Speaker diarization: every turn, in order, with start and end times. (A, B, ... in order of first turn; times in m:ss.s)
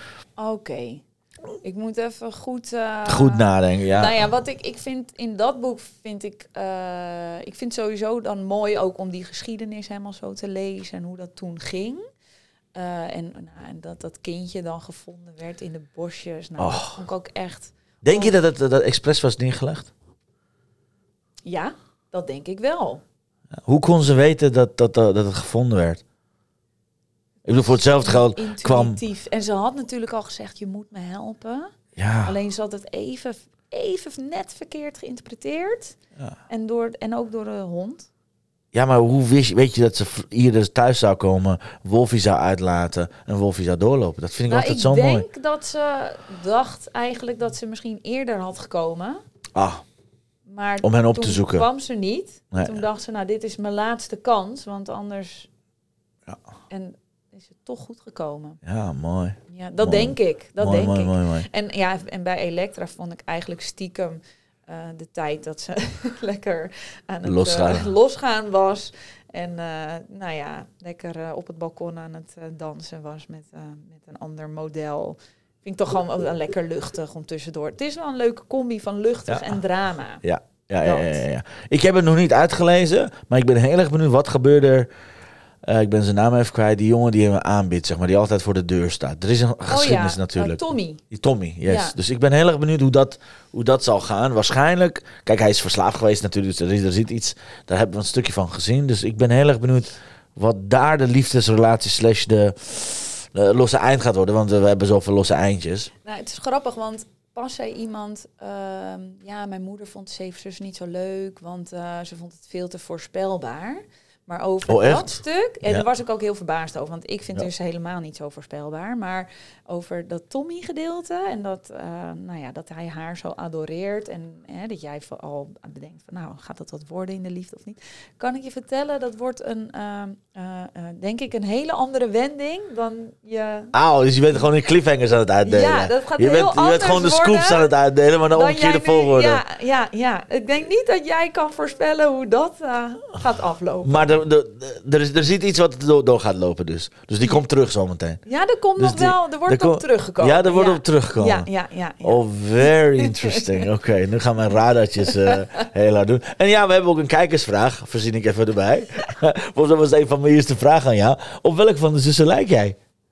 0:00.4-0:01.0 A
0:01.6-0:12.0 A
0:03.0-0:04.1 B
0:12.7-0:18.4 A
0:16.6-0:17.0 B
0:18.0-0:19.9 B
0:21.4-0:23.0 A
0:23.6-0:26.0 B
0:27.4-0:29.0 B
0:27.5-0:36.0 A
0:32.0-0:32.3 B
0:36.5-0:38.1 A
0:38.7-0:45.2 B
0:44.5-0:49.2 A
0:49.5-0:49.8 B
0:50.5-0:55.5 A
0:50.8-0:51.7 B
0:52.5-0:52.8 B
0:56.7-0:58.6 A
0:58.6-1:01.5 B
0:59.5-1:20.2 A
1:07.2-1:07.9 B
1:19.3-1:19.5 B
1:20.2-1:24.9 B
1:20.8-1:21.2 A
1:25.6-1:45.9 B
1:29.7-1:31.0 A
1:31.6-1:31.9 A
1:46.0-2:13.7 A
1:54.7-1:55.8 B
2:13.7-2:19.4 B
2:15.4-2:17.7 A
2:18.3-2:24.1 A
2:23.8-2:28.2 B
2:28.2-2:33.6 A
2:28.8-2:31.5 B
2:32.0-2:42.8 B
2:35.2-2:35.6 A